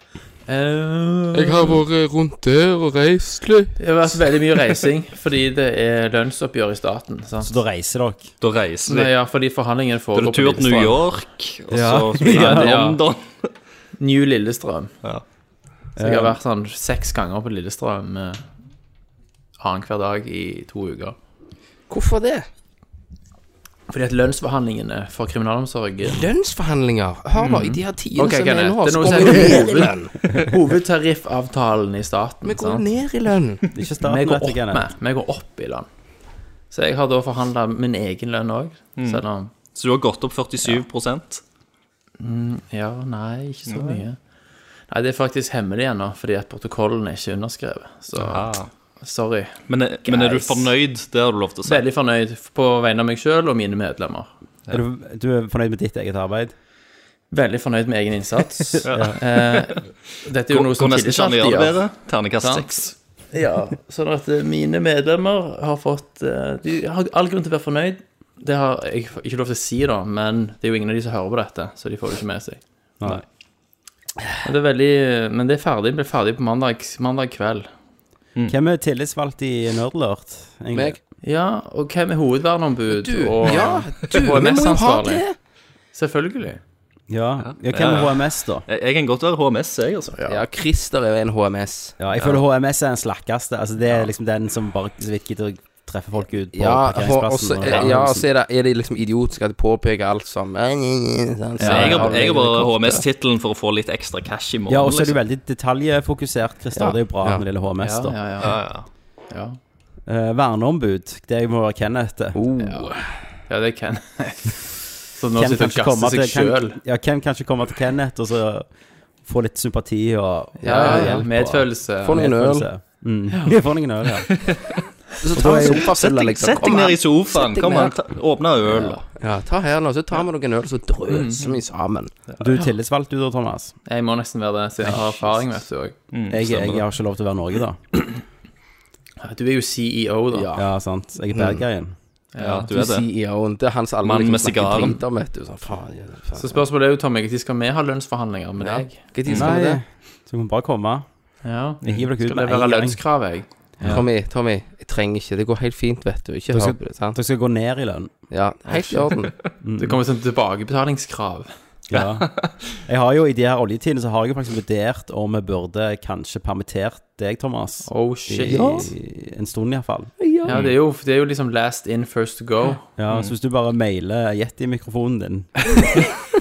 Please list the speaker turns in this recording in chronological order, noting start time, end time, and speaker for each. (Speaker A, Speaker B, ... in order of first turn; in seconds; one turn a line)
Speaker A: 0.5-1.8
Speaker B: 1.3-3.8
Speaker A: 3.8-7.5
Speaker C: 7.4-8.3
Speaker D: 8.4-9.1
Speaker A: 8.9-11.0
Speaker D: 10.2-13.5
Speaker C: 11.7-13.0
Speaker A: 12.2-13.0
Speaker A: 14.0-14.9
Speaker C: 15.9-16.4
Speaker A: 16.0-18.4
Speaker A: 19.6-21.1
Speaker B: 21.9-22.5
Speaker A: 23.9-26.2
Speaker B: 26.0-30.1
Speaker A: 27.4-32.8
Speaker B: 32.4-33.6
Speaker C: 33.7-34.9
Speaker A: 34.0-35.9
Speaker A: 36.7-39.5
Speaker D: 39.0-41.4
Speaker A: 42.2-44.2
Speaker D: 43.7-44.0
Speaker A: 44.9-48.5
Speaker D: 48.1-48.7
Speaker A: 49.0-50.7
Speaker D: 49.7-51.8
Speaker A: 51.6-54.3
Speaker C: 54.7-56.5
Speaker A: 57.3-61.8
Speaker D: 58.8-59.8
Speaker C: 58.8-59.2
Speaker D: 60.5-62.9
Speaker A: 62.4-73.2
Speaker A: 74.4-77.7
Speaker C: 78.5-81.0
Speaker A: 81.2-85.2
Speaker B: 82.9-85.3
Speaker A: 85.9-86.6
Speaker C: 87.1-88.6
Speaker D: 87.4-90.2
Speaker A: 90.2-90.4
Speaker B: 90.2-91.9
Speaker C: 92.0-98.2
Speaker D: 92.2-92.4
Speaker B: 96.5-103.0
Speaker A: 101.6-103.0
Speaker D: 101.6-105.2
Speaker C: 104.7-108.2
Speaker B: 106.8-107.4
Speaker A: 107.8-108.6
Speaker D: 108.4-108.9
Speaker A: 109.3-109.6
Speaker C: 110.0-112.4
Speaker B: 112.3-113.0
Speaker A: 112.6-113.0
Speaker A: 113.5-116.8
Speaker C: 115.3-118.7
Speaker C: 119.2-124.3
Speaker B: 120.6-121.3
Speaker A: 120.6-122.3
Speaker B: 122.0-122.7
Speaker A: 123.3-123.5
Speaker D: 124.3-124.8
Speaker B: 125.2-127.9
Speaker C: 125.3-125.9
Speaker D: 125.4-129.0
Speaker B: 129.2-132.1
Speaker A: 131.1-131.6
Speaker C: 132.4-133.7
Speaker A: 133.8-135.9
Speaker D: 136.1-136.8
Speaker C: 136.3-137.8
Speaker A: 139.2-140.5
Speaker B: 140.3-140.7
Speaker C: 140.5-141.9
Speaker B: 141.3-141.6
Speaker A: 142.3-142.7
Speaker D: 142.4-143.1
Speaker B: 142.7-146.6
Speaker D: 144.0-145.0
Speaker A: 146.4-149.0
Speaker B: 148.6-149.8
Speaker C: 149.3-151.0
Speaker A: 151.4-154.1
Speaker C: 151.8-153.0
Speaker B: 153.8-157.2
Speaker C: 156.5-158.1
Speaker B: 158.3-159.3
Speaker A: 158.7-159.1
Speaker C: 159.6-160.0
Speaker A: 159.8-161.5
Speaker C: 161.9-170.1
Speaker A: 167.8-168.9
Speaker B: 168.5-168.9
Speaker B: 170.2-170.6
Speaker A: 170.4-172.8
Speaker D: 170.5-170.8
Speaker C: 173.0-175.9
Speaker A: 175.7-176.1